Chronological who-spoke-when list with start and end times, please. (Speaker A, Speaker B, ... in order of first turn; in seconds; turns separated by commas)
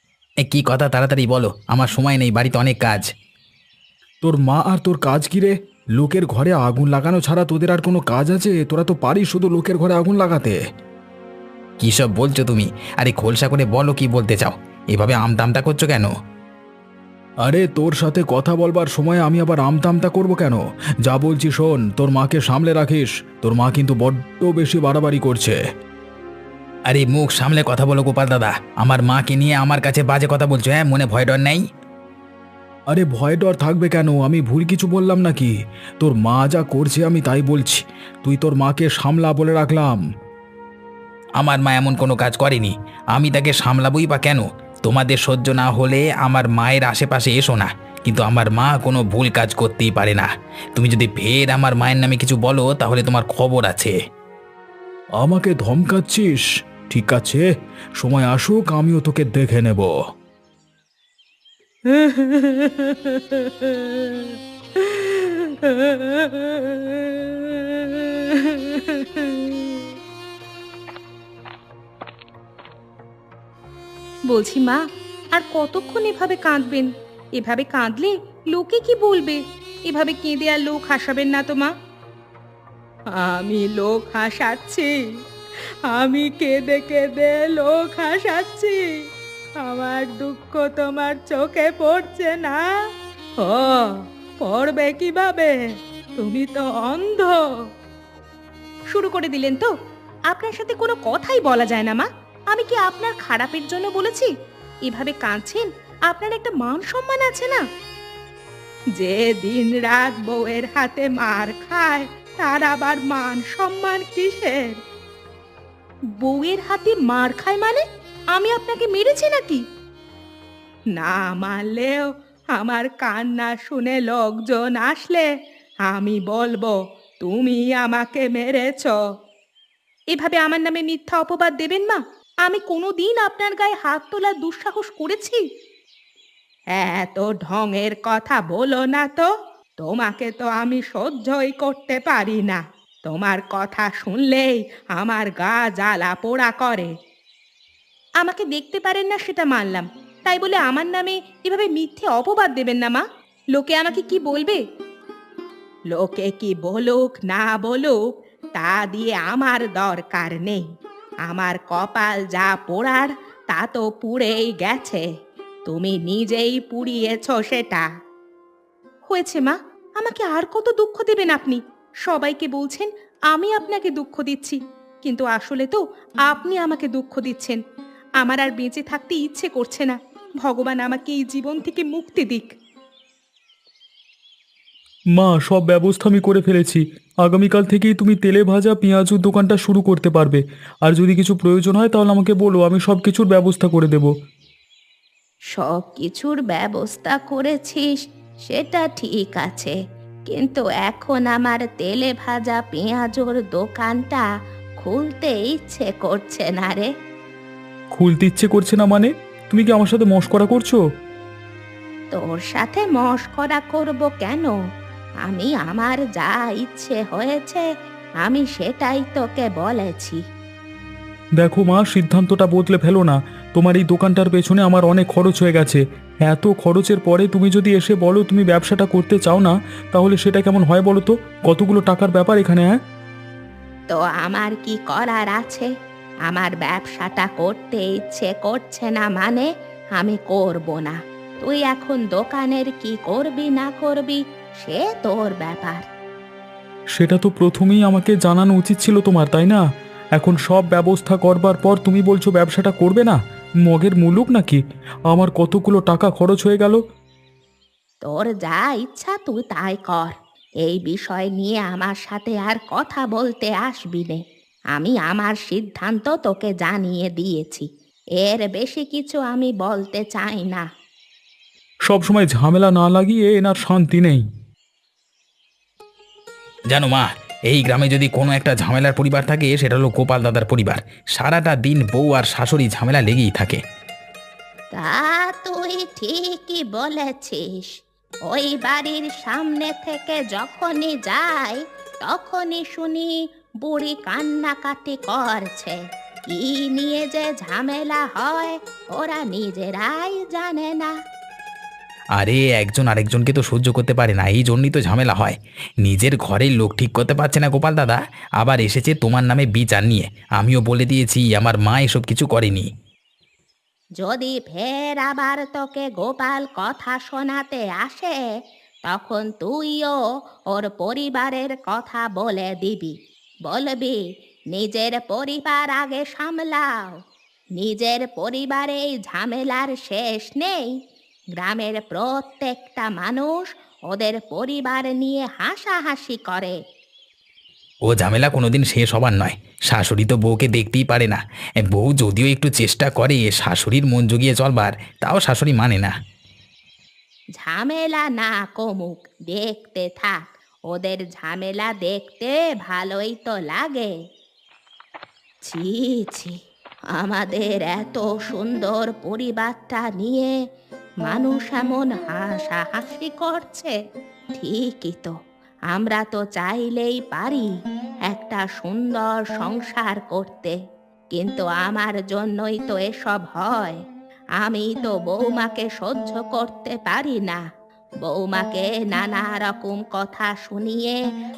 Speaker A: 0.4-3.1, Speaker B: 4.2-10.6, Speaker A: 11.8-16.1, Speaker B: 17.4-25.6, Speaker A: 26.9-31.6, Speaker B: 32.9-40.0, Speaker A: 41.4-54.0, Speaker B: 55.2-59.9, Speaker C: 62.0-62.9, Speaker C: 65.8-66.8, Speaker C: 69.2-69.6, Speaker C: 74.3-74.8, Speaker C: 75.3-81.7, Speaker C: 83.2-84.9, Speaker C: 85.9-88.8, Speaker C: 89.6-92.7, Speaker C: 93.4-95.6, Speaker C: 96.2-97.5, Speaker C: 98.9-99.7, Speaker C: 100.3-104.3, Speaker C: 104.9-107.6, Speaker C: 109.0-114.8, Speaker C: 116.2-119.6, Speaker C: 121.0-125.3, Speaker C: 125.9-129.0, Speaker C: 130.1-135.4, Speaker C: 136.8-139.3, Speaker C: 139.8-146.9, Speaker C: 148.2-154.6, Speaker C: 155.9-158.0, Speaker C: 158.6-160.7, Speaker C: 161.3-165.1, Speaker C: 165.7-167.9, Speaker C: 169.1-177.6, Speaker C: 178.2-182.5, Speaker B: 185.2-194.1, Speaker C: 195.5-197.9, Speaker C: 198.5-199.8, Speaker C: 200.3-204.2, Speaker C: 204.8-206.9, Speaker B: 208.0-210.8, Speaker C: 212.1-214.6, Speaker C: 215.3-217.7, Speaker C: 218.2-220.2, Speaker B: 221.4-232.7, Speaker C: 233.9-235.7, Speaker C: 236.3-245.8, Speaker B: 247.0-249.6, Speaker B: 250.2-254.6, Speaker B: 255.1-256.8, Speaker C: 258.0-264.2, Speaker C: 264.7-267.7, Speaker C: 268.2-270.7, Speaker B: 271.9-274.2, Speaker A: 276.7-283.6, Speaker C: 284.8-287.7, Speaker C: 288.3-301.0, Speaker A: 302.2-312.7, Speaker C: 314.0-318.2, Speaker C: 318.9-320.0, Speaker C: 320.5-323.0, Speaker C: 323.5-324.0, Speaker C: 324.5-326.9, Speaker C: 327.6-330.7, Speaker C: 331.4-336.6, Speaker A: 337.9-345.9, Speaker C: 347.4-353.9, Speaker C: 355.5-356.4, Speaker C: 356.9-360.3, Speaker C: 361.0-363.8, Speaker C: 364.4-365.1, Speaker C: 365.7-367.5, Speaker C: 368.1-370.6, Speaker C: 371.1-373.8, Speaker C: 374.4-377.4, Speaker C: 378.0-381.0